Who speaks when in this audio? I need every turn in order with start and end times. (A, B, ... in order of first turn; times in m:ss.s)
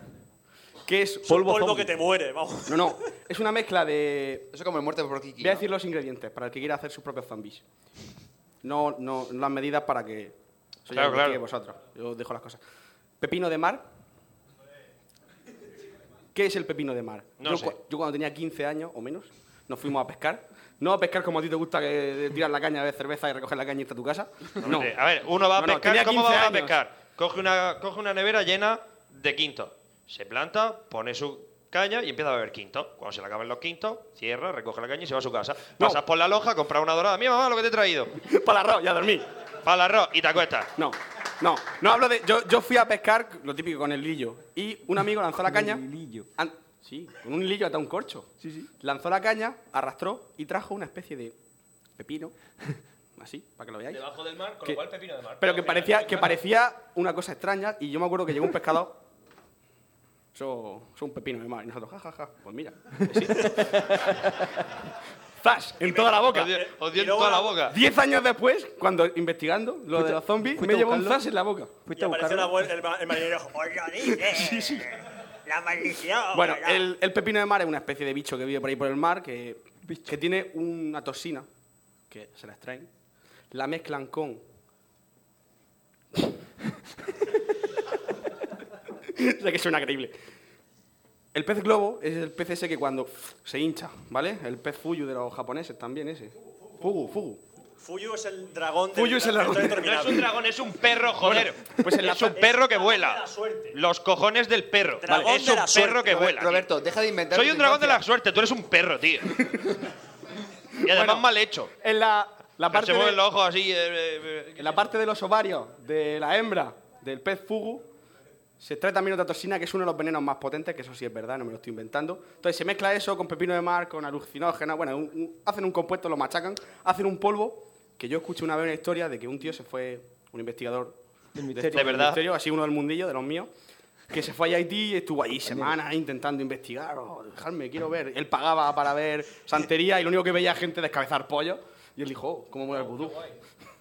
0:00.8-0:02.0 A
0:01.2-0:03.0 B
0:02.6-0:04.5 A
0:04.5-0:05.6 C
0:05.4-0:07.6 A
0:08.6-0:12.6 A
0:10.9-0:11.4 D
0:13.2-0:13.8 A
0:16.3-0:25.0 A
0:17.4-0:17.8 D
0:24.6-0:38.2 D
0:25.5-0:26.8 A
0:38.2-0:39.2 A
0:39.6-0:40.7 D
0:40.8-0:45.8 A
0:45.5-0:46.2 E
0:46.4-0:51.3 A
0:48.4-0:48.7 E
0:52.0-0:52.3 A
0:53.2-0:54.0 A
0:53.9-0:56.4 D
0:55.4-0:59.0 A
1:00.3-1:03.9 A
1:03.7-1:04.3 E
1:05.4-1:06.6 A
1:05.8-1:07.6 B
1:06.2-1:07.8 D
1:07.6-1:11.8 A
1:09.9-1:11.2 E
1:11.8-1:12.6 E
1:11.9-1:16.9 B
1:14.1-1:15.0 A
1:16.3-1:21.5 A
1:22.1-1:22.9 A
1:23.5-1:24.4 A
1:29.0-1:30.2 A
1:31.3-1:37.4 A
1:37.8-1:40.3 B
1:38.9-1:40.0 A
1:39.6-1:46.7 D
1:41.2-1:42.5 A
1:42.1-1:43.8 B
1:45.0-1:46.0 B
1:45.9-1:48.0 C
1:47.3-1:49.7 D
1:50.8-1:51.7 D
1:50.8-1:51.3 A
1:51.8-1:53.2 A
1:52.7-1:54.9 D
1:54.6-1:57.9 A
1:58.6-2:11.0 A
2:11.3-2:12.1 E
2:11.5-2:13.5 A
2:11.7-2:12.2 D
2:14.1-2:23.3 A